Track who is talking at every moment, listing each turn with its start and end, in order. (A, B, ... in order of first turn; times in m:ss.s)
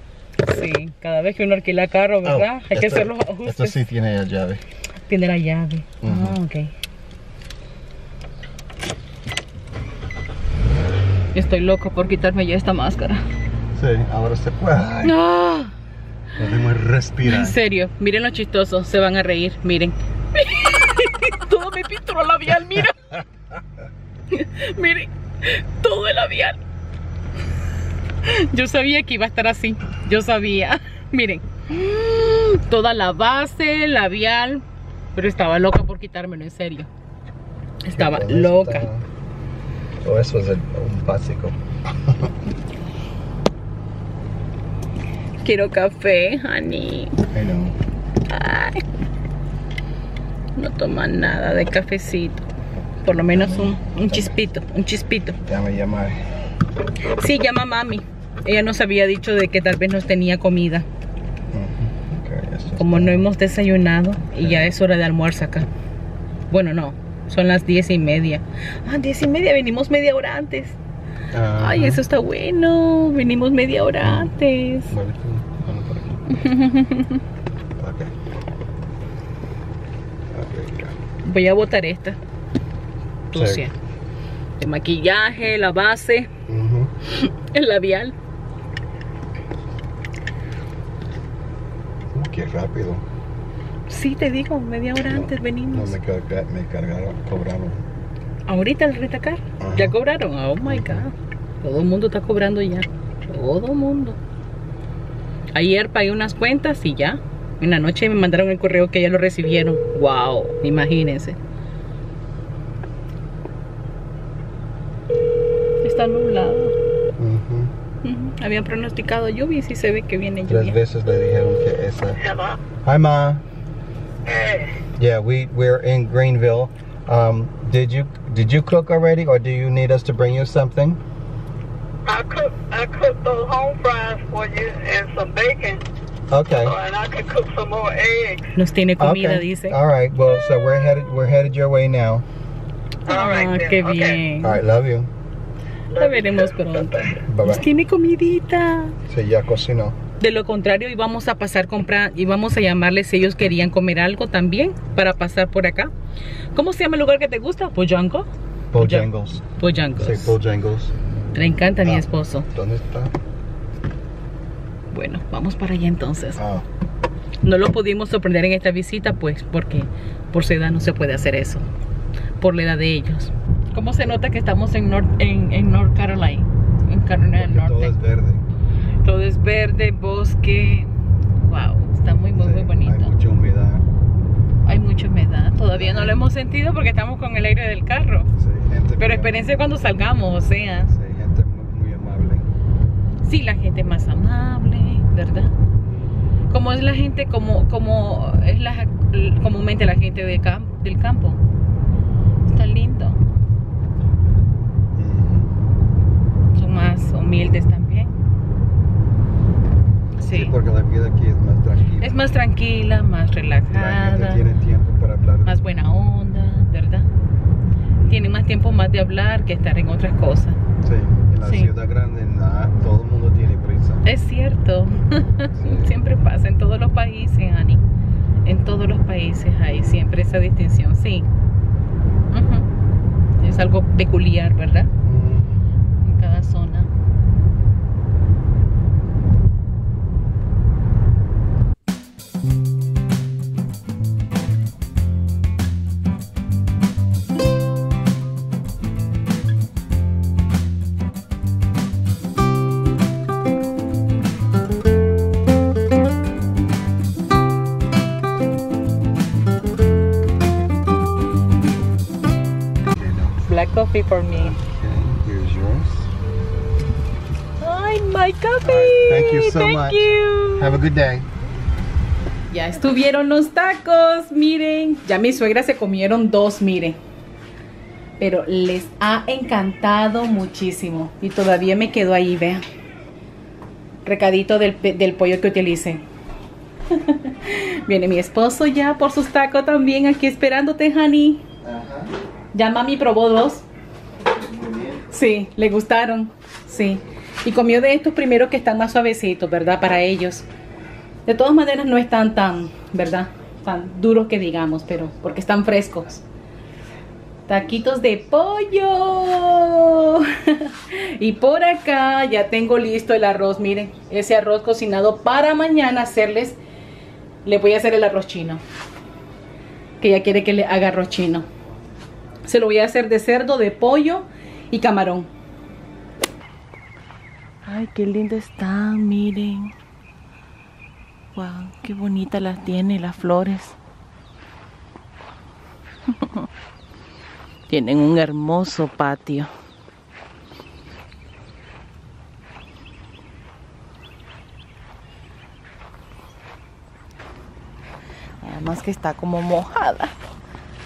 0:00.4-0:03.8 A
0:02.2-0:04.6 B
0:05.0-0:06.7 A
0:06.0-0:06.4 B
0:11.3-0:13.2 A
0:13.8-0:15.2 B
0:15.0-0:15.7 A
0:16.4-0:17.6 B
0:17.2-0:23.2 A
0:24.3-0:26.6 A
0:28.2-0:34.6 A
0:35.2-0:36.9 A
0:37.8-0:38.9 A
0:38.0-0:39.0 B
0:40.0-0:42.3 B
0:45.4-0:47.2 A
0:47.3-0:47.8 B
0:48.3-0:48.8 A
0:50.6-0:52.4 A
0:53.0-0:55.4 A
0:53.2-0:54.4 B
0:55.5-0:56.2 B
0:57.0-1:00.9 A
1:01.5-1:03.3 B
1:02.8-1:05.7 A
1:04.4-1:04.7 B
1:06.5-1:10.8 A
1:11.3-1:12.0 B
1:11.6-1:15.0 A
1:14.0-1:14.3 B
1:14.9-1:16.2 B
1:16.3-1:17.2 A
1:17.8-1:18.1 B
1:20.3-1:21.0 B
1:21.2-1:22.2 A
1:23.3-1:23.7 A
1:23.3-1:23.6 B
1:24.6-1:26.3 A
1:26.5-1:26.9 B
1:27.0-1:28.2 A
1:32.1-1:33.0 B
1:33.9-1:36.0 A
1:35.1-1:37.8 B
1:38.5-1:44.2 A
1:39.6-1:40.0 B
1:40.6-1:41.0 B
1:45.5-1:51.4 A
1:55.8-1:56.7 A
1:57.2-1:57.7 B
1:58.0-2:00.8 A
2:00.5-2:02.2 B
2:02.2-2:02.6 C
2:02.8-2:03.4 B
2:04.3-2:04.8 C
2:05.0-2:11.0 B
2:12.1-2:15.8 C
2:16.3-2:16.8 B
2:16.7-2:18.4 C
2:18.6-2:19.8 A
2:19.0-2:22.3 B
2:23.1-2:24.6 A
2:23.1-2:24.1 C
2:24.4-2:25.1 B
2:26.0-2:29.0 A
2:26.0-2:26.2 C
2:26.9-2:27.7 B
2:29.1-2:30.0 B
2:30.2-2:35.9 A
2:36.5-2:38.3 A
2:38.7-2:39.4 B
2:38.8-2:40.4 A
2:40.0-2:40.9 B
2:41.3-2:42.5 A
2:41.8-2:43.2 B
2:44.9-2:46.4 A
2:46.4-2:46.7 B
2:47.4-2:51.6 A
2:52.4-2:57.9 A
2:57.4-2:58.4 B
2:59.0-3:00.9 A
3:01.4-3:03.1 A
3:02.4-3:03.9 B
3:04.6-3:08.3 A
3:05.7-3:06.2 B
3:08.4-3:09.4 B
3:09.0-3:10.9 A
3:10.9-3:12.5 B
3:13.2-3:15.5 A
3:16.5-3:21.4 A
3:22.5-3:23.2 A
3:25.0-3:25.6 B
3:26.5-3:28.1 A
3:30.2-3:30.5 A
3:30.2-3:32.3 B
3:32.0-3:34.5 A
3:33.7-3:35.6 B
3:35.4-3:37.1 A
3:38.1-3:40.6 A
3:40.8-3:44.1 B
3:41.4-3:41.7 A
3:44.0-3:47.8 A
3:45.6-3:46.0 B
3:48.4-3:51.3 A
3:52.3-3:52.7 A
3:53.4-3:54.9 A
3:55.0-3:55.6 B
3:56.0-3:56.9 A
4:22.9-4:23.4 B
4:23.5-4:24.6 A
4:24.3-4:26.1 B
4:27.6-4:30.8 A
4:28.6-4:31.3 B
4:32.5-4:37.0 A
4:38.2-4:42.6 A
4:44.0-4:46.0 A
4:46.9-4:51.4 A
4:51.6-4:52.1 B
4:52.5-4:53.6 A
4:54.3-4:55.0 B
4:55.0-5:00.5 A
5:01.3-5:06.2 A
5:07.5-5:16.6 A
5:17.4-5:18.6 A
5:20.0-5:21.5 A
5:22.4-5:25.3 A
5:27.6-5:29.7 A
5:31.4-5:33.8 A
5:36.1-5:36.5 A
5:37.7-5:39.5 A
5:48.4-5:50.2 A